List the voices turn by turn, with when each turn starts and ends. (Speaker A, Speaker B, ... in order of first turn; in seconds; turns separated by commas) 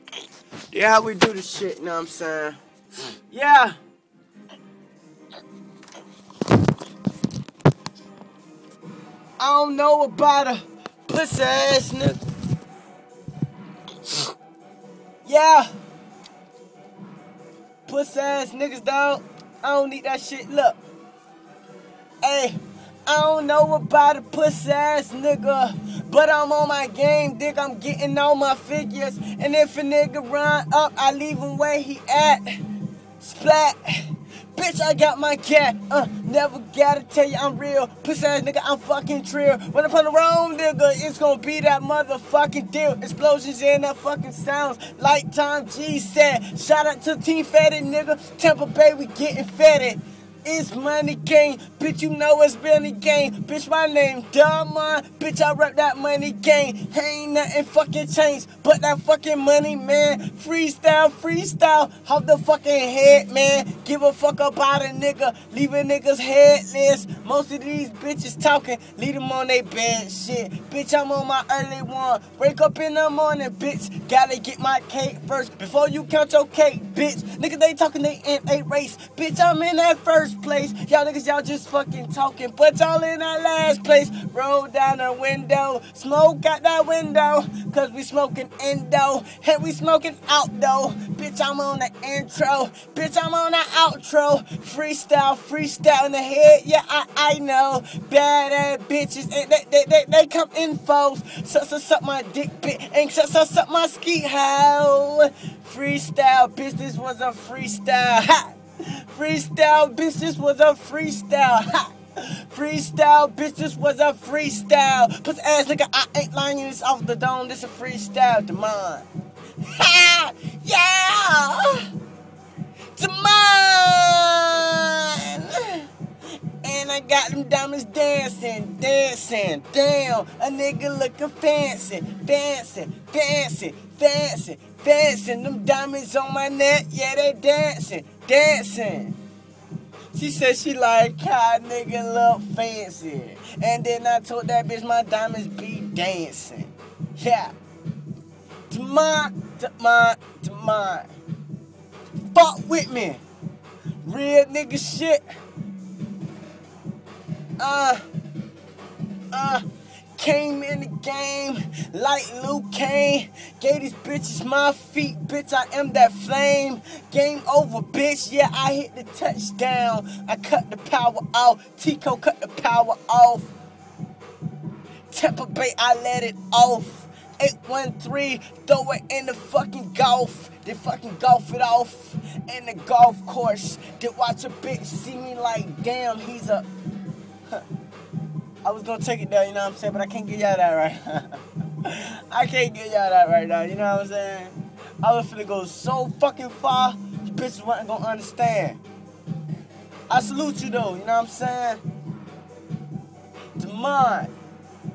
Speaker A: 0.7-2.6, Speaker A: 3.3-3.8, Speaker A: 9.4-12.2, Speaker A: 15.2-15.7, Speaker A: 17.9-20.8, Speaker A: 22.2-32.5, Speaker A: 33.2-108.6, Speaker A: 109.1-119.1, Speaker A: 119.6-121.9, Speaker A: 123.0-125.9, Speaker A: 126.6-139.2, Speaker A: 140.1-147.5, Speaker A: 148.7-151.1, Speaker A: 152.3-153.2, Speaker A: 154.0-155.2, Speaker A: 157.6-158.0, Speaker A: 159.3-159.7, Speaker A: 160.2-173.5, Speaker A: 175.1-186.7, Speaker A: 188.6-198.8, Speaker A: 200.1-201.8, Speaker A: 203.6-204.3